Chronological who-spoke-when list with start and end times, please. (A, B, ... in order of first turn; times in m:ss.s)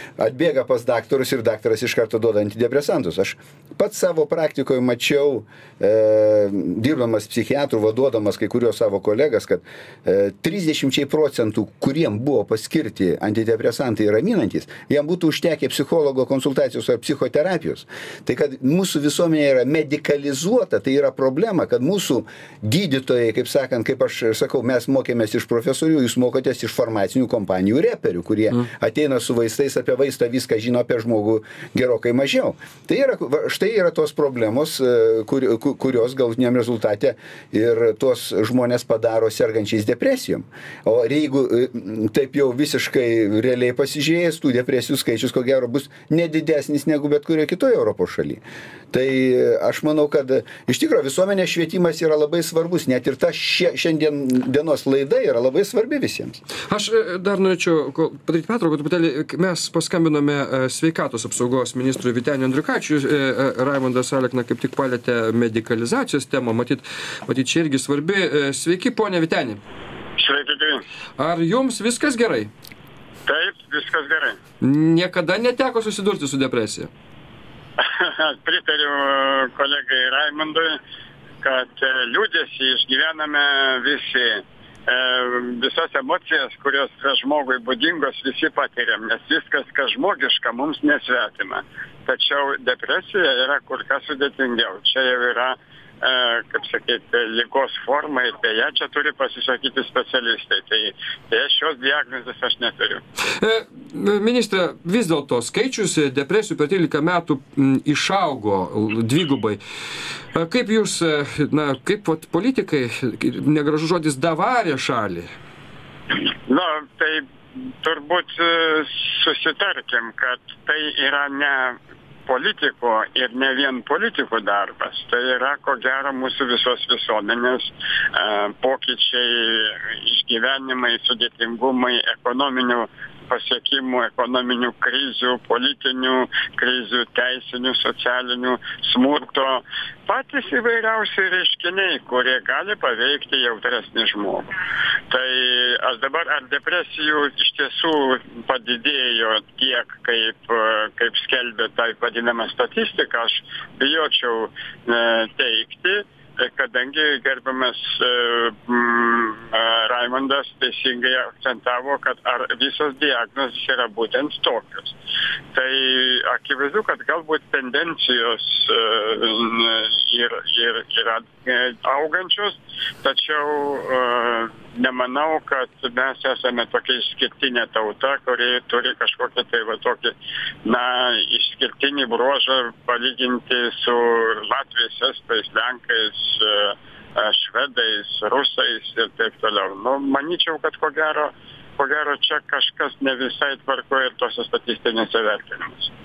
0:00.2-0:56.4 A
0:56.7-1:09.6 B
1:10.2-1:10.8 C
1:11.2-1:12.5 B
1:13.2-1:14.4 C
1:14.6-1:16.9 B
1:17.8-1:20.8 C
1:21.4-1:43.0 C
1:43.4-1:49.6 B
1:50.3-1:55.3 B
1:56.5-1:57.2 C
1:57.8-2:24.5 C
2:25.1-2:44.9 C
2:45.5-3:00.1 C
3:00.6-3:15.9 C